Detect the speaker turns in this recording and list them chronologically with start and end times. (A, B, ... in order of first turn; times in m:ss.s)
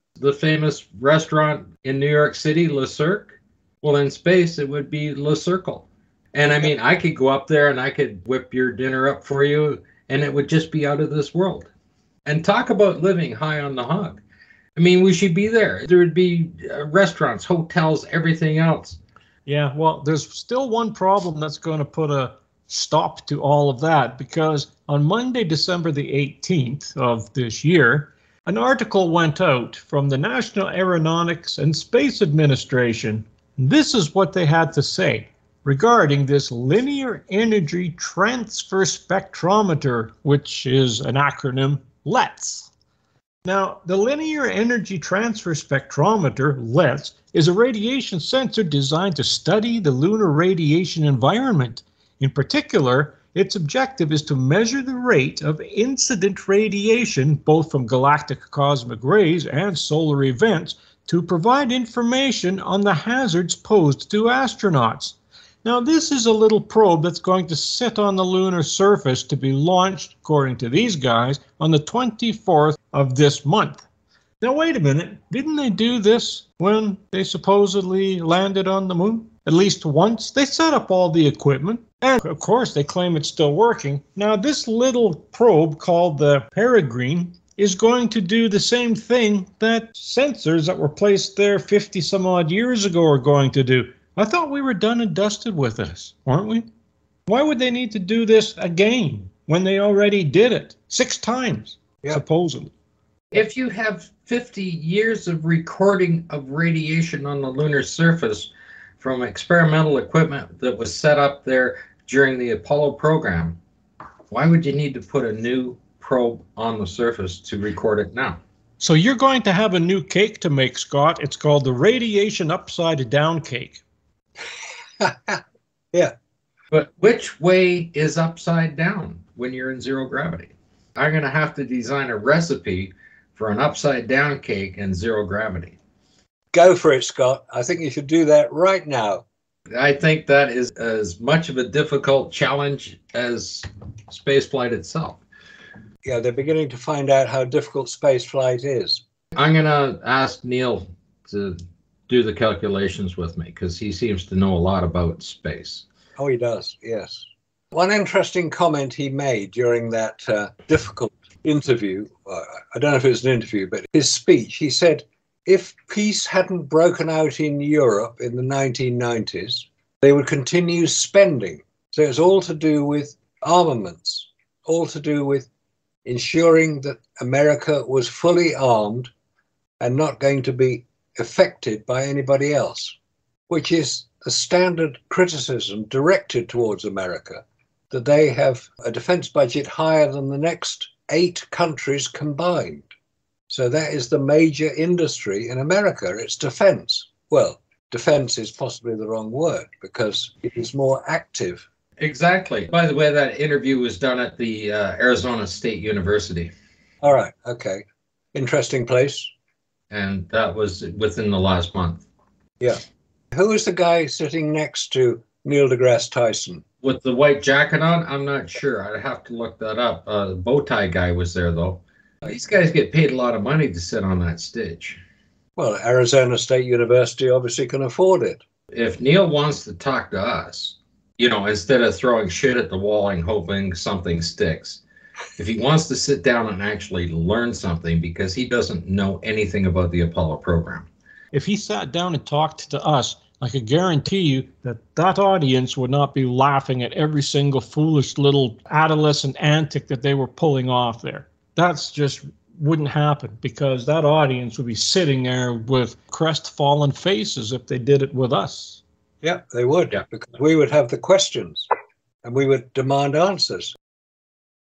0:00.2-0:11.7 A
0:12.2-0:14.2 A
0:14.8-0:19.0 A
0:19.4-0:42.7 B
0:43.4-1:13.8 B
1:14.4-1:36.6 B
1:37.3-1:42.7 B
1:43.3-1:53.6 A
1:54.3-1:58.4 A
1:58.8-2:03.8 B
2:05.0-2:05.4 C
2:06.7-2:15.8 A
2:16.5-2:19.2 C
2:19.7-2:25.2 A
2:26.0-2:29.0 C
2:29.3-2:31.6 A
2:32.1-2:35.8 A
2:36.2-2:55.5 C
2:56.0-2:59.1 C
2:59.8-3:03.0 C
3:03.5-3:12.9 C
3:13.5-3:21.6 C
3:22.0-3:26.5 A
3:27.0-3:29.3 C
3:29.9-3:32.0 A
3:32.6-3:36.6 C
3:36.8-3:45.0 A
3:45.6-3:48.4 C
3:48.7-3:54.8 A
3:55.4-4:00.9 A
4:01.3-4:18.8 B
4:19.2-4:21.7 C
4:22.2-4:23.7 C